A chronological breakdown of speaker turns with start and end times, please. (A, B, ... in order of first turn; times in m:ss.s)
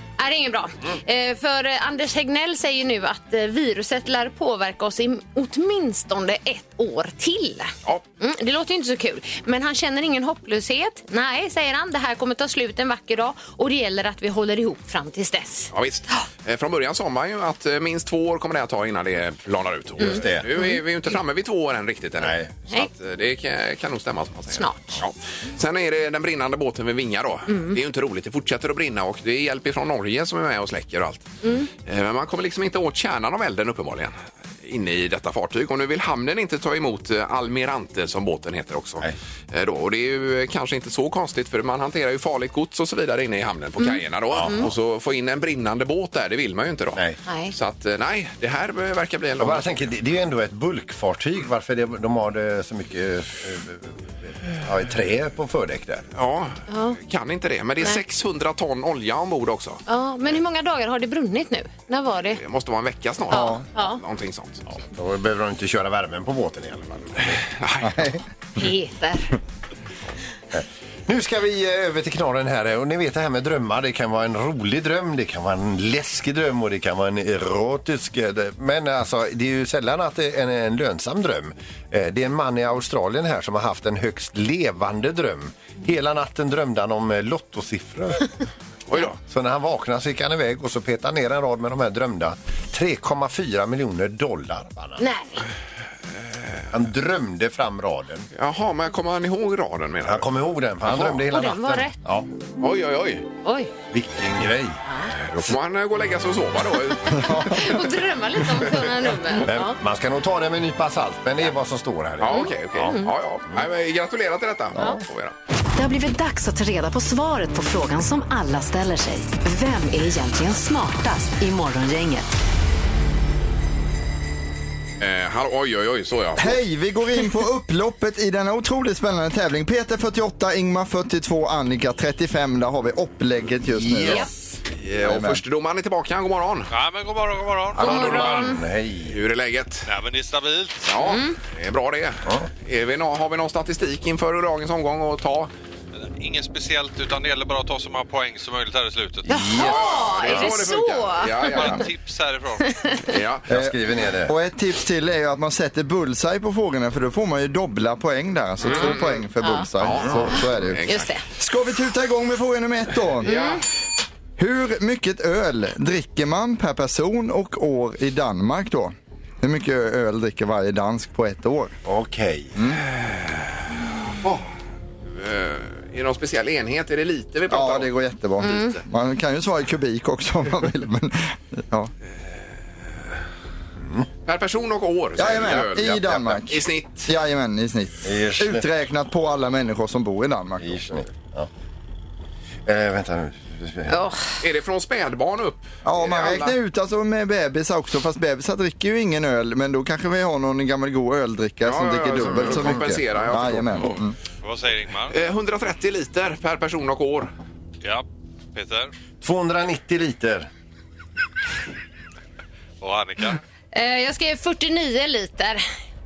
0:00.2-0:16.3 A
0:15.7-0:49.9 B
0:20.0-0:20.5 C
0:20.0-0:20.8 A
0:22.2-0:22.5 C
0:24.5-0:25.0 A
0:27.5-0:27.8 A
0:31.4-0:31.7 A
0:43.8-0:44.7 A
0:44.3-0:44.7 C
0:47.3-0:47.5 A
0:49.4-0:56.1 C
0:56.2-0:59.8 B
0:56.7-0:57.0 A
0:59.9-1:02.4 A
1:02.4-1:04.7 B
1:03.3-1:03.6 D
1:03.3-1:04.0 A
1:04.7-1:07.4 C
1:07.4-1:08.0 B
1:07.8-1:08.2 D
1:08.6-1:09.4 A
1:10.5-1:28.3 C
1:28.9-1:29.2 B
1:29.2-1:35.0 C
1:35.0-1:35.5 A
1:36.7-1:38.3 C
1:38.4-1:40.3 B
1:40.0-1:42.3 C
1:40.8-1:41.2 B
1:41.3-1:42.0 A
1:42.6-1:43.3 B
1:43.4-1:43.7 A
1:43.9-1:44.8 C
1:44.9-1:45.1 A
1:45.2-1:47.7 B
1:47.2-1:47.6 D
1:47.2-1:49.8 A
1:49.4-1:53.6 C
1:52.2-1:55.4 B
1:52.3-1:53.1 A
1:55.8-2:02.3 E
2:05.0-2:06.6 B
2:06.4-2:14.3 D
2:13.7-2:14.3 C
2:14.7-2:16.7 B
2:15.0-2:15.4 D
2:16.7-2:18.5 F
2:17.8-2:19.2 C
2:17.8-2:18.6 A
2:19.1-2:19.9 B
2:19.9-2:20.9 F
2:20.8-2:25.5 B
2:21.0-2:21.4 A
2:26.0-2:29.3 F
2:29.3-2:30.5 C
2:29.3-2:31.8 A
2:29.6-2:31.8 B
2:31.5-2:32.8 F
2:32.7-2:33.0 A
2:33.1-2:33.5 B
2:33.5-2:34.3 C
2:33.5-2:40.8 D
2:38.6-2:39.3 B
2:38.7-2:39.7 A
2:39.8-2:41.1 B
2:40.9-2:41.2 A
2:41.4-2:43.5 D
2:43.2-2:43.6 B
2:43.2-2:43.6 A
2:44.4-2:51.8 D
2:51.8-2:52.5 C
2:52.6-2:52.8 D
2:52.9-2:53.6 B
2:55.1-2:57.9 B
2:57.5-3:01.9 D
2:58.4-2:58.8 A
3:03.8-3:04.1 C
3:04.3-3:07.1 B
3:05.2-3:11.0 D
3:08.0-3:08.6 C
3:10.6-3:11.5 C
3:12.7-3:14.0 C
3:13.9-3:14.2 A
3:14.4-3:16.6 B
3:15.8-3:24.2 D
3:21.6-3:24.0 B
3:22.4-3:22.8 C
3:24.4-3:25.2 F
3:25.1-3:27.3 B
3:27.8-3:28.9 F
3:29.2-3:30.5 C
3:32.8-3:33.4 F
3:33.7-3:35.6 A